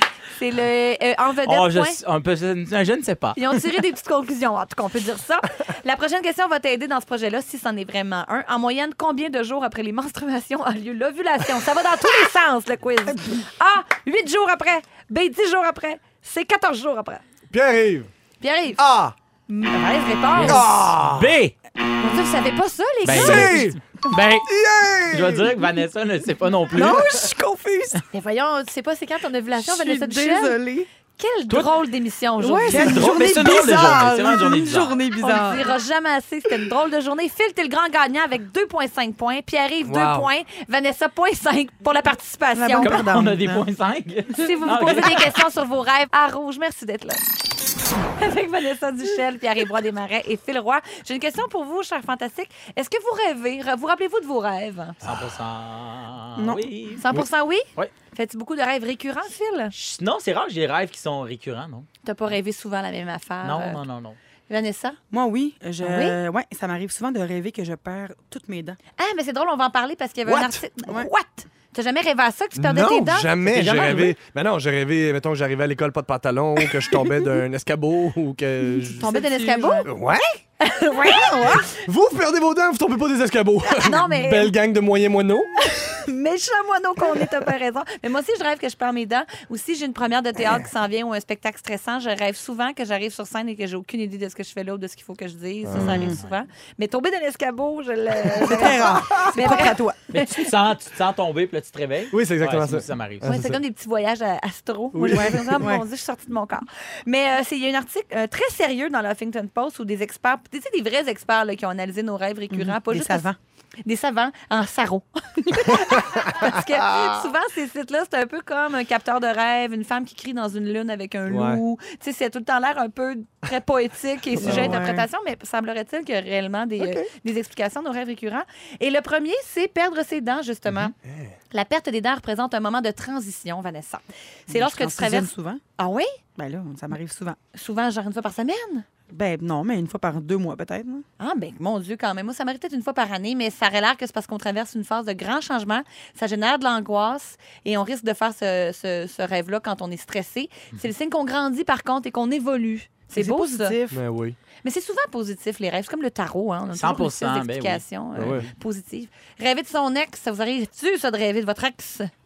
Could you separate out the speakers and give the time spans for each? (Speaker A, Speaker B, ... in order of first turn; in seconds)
Speaker A: 0.3-2.0, 3.4-17.2, 18.4-18.8, 19.5-20.6, 22.0-23.7, 28.1-30.6, 31.2-33.0, 35.2-43.0, 44.4-47.2, 48.2-55.0, 57.0-59.7, 62.0-63.8, 64.5-65.0, 65.8-66.2, 69.0-73.3, 79.0-79.9, 80.6-81.7, 83.7-84.5, 85.6-99.8, 103.2-113.3, 113.8-130.9, 131.5-136.1, 137.5-138.8, 141.2-153.8, 154.6-162.1
Speaker B: 1.4-3.6, 20.4-21.5, 23.1-24.5, 25.1-27.1, 32.7-35.0, 42.8-45.3, 55.0-57.0, 59.7-61.9, 63.4-64.2, 73.5-74.2, 100.1-103.3, 156.7-158.3
Speaker C: 17.5-18.1, 18.8-19.1, 20.4-21.4, 23.1-23.8, 24.4-25.5, 26.7-27.3, 39.8-40.3, 70.3-70.6, 72.5-79.1, 79.8-80.2, 81.6-85.5, 95.7-96.2, 98.8-99.4, 102.1-103.6, 104.9-105.4, 116.1-117.1, 121.3-121.6, 124.4-124.9, 126.8-127.1, 131.0-131.3, 153.9-154.4, 158.2-158.5
Speaker D: 26.7-28.0, 29.6-30.9, 32.4-35.6, 42.5-43.6, 56.4-56.7, 65.1-68.8, 70.8-71.1, 78.8-79.9, 95.8-96.2, 98.4-100.3, 105.1-105.8, 112.5-113.4, 124.4-125.1, 134.5-135.6, 136.4-137.4, 139.1-141.1, 153.1-154.0